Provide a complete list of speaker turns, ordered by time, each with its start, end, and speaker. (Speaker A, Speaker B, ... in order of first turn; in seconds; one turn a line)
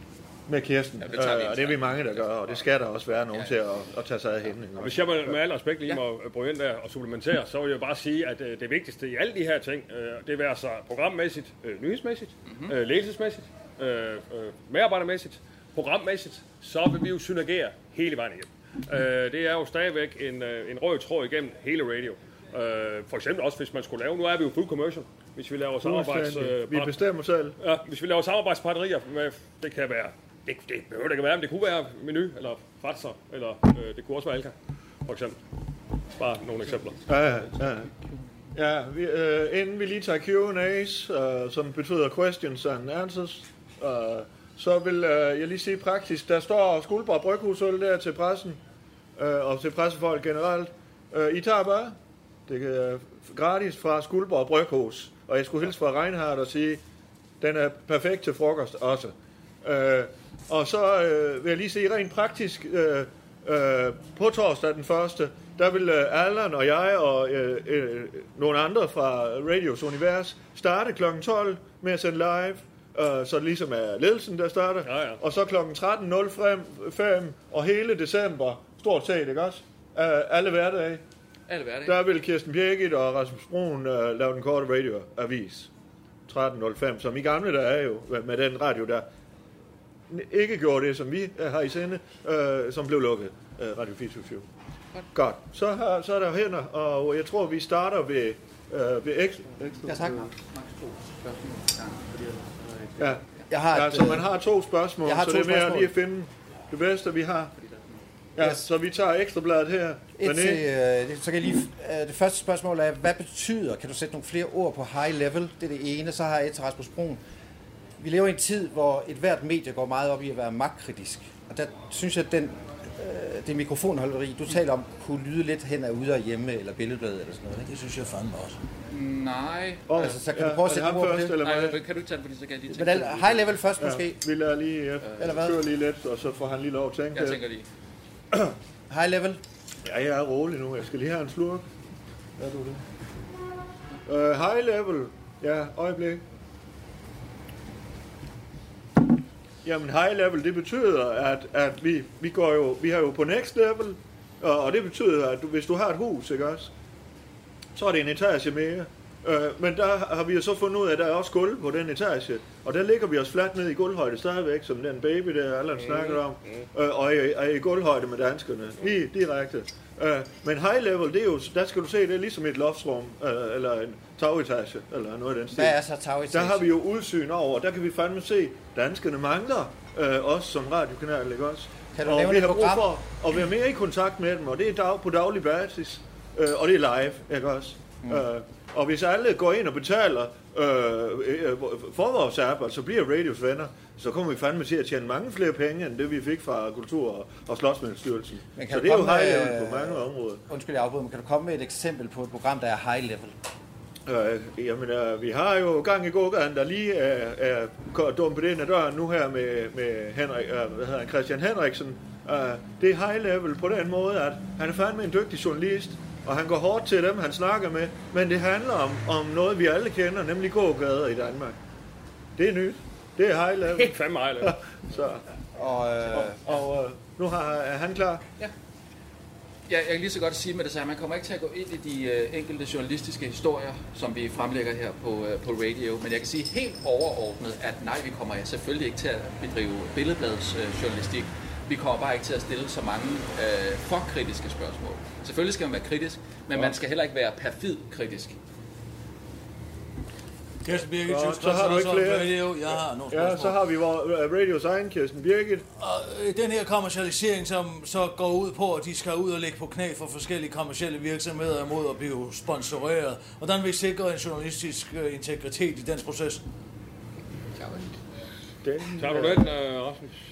Speaker A: 0.5-5.4
Speaker B: 1.0-2.3
Speaker C: 4.8-27.0
Speaker B: 12.4-12.7
Speaker A: 25.8-27.6
Speaker C: 27.6-34.5
Speaker C: 35.0-35.4
Speaker C: 36.2-37.0
Speaker A: 37.1-37.9
Speaker A: 38.5-48.6
Speaker A: 49.2-56.8
Speaker A: 57.4-81.0
Speaker C: 74.8-75.2
Speaker B: 81.5-82.0
Speaker A: 81.8-85.7
Speaker A: 86.3-89.0
Speaker A: 90.1-94.5
Speaker A: 95.1-100.2
Speaker D: 99.7-100.3
Speaker B: 100.2-103.0
Speaker A: 103.0-107.5
Speaker D: 103.5-104.3
Speaker D: 105.0-105.9
Speaker B: 107.6-108.0
Speaker A: 108.4-110.7
Speaker D: 108.4-108.7
Speaker D: 110.2-117.2
Speaker D: 118.0-127.7
Speaker E: 127.6-128.6
Speaker B: 128.9-130.2
Speaker A: 129.9-131.8
Speaker D: 129.9-131.4
Speaker B: 131.4-133.5
Speaker D: 132.7-134.2
Speaker A: 133.8-137.4
Speaker B: 135.0-135.4
Speaker D: 135.2-135.6
Speaker B: 137.1-137.7
Speaker D: 138.9-139.4
Speaker A: 139.8-141.7
Speaker A: 142.4-142.9
Speaker A: 144.1-146.2
Speaker A: 149.6-156.7
Speaker A: 157.7-175.8
Speaker C: 165.8-166.6
Speaker D: 175.5-176.7
Speaker A: 176.3-200.4
Speaker D: 181.9-182.9
Speaker D: 198.6-203.3
Speaker A: 204.1-221.6
Speaker A: 222.3-225.2
Speaker C: 223.7-224.5
Speaker D: 225.6-226.3
Speaker A: 226.1-228.2
Speaker B: 229.7-248.4
Speaker E: 250.6-253.6
Speaker A: 251.0-255.7
Speaker E: 255.8-266.4
Speaker B: 267.6-267.9
Speaker A: 268.6-269.5
Speaker C: 269.0-270.1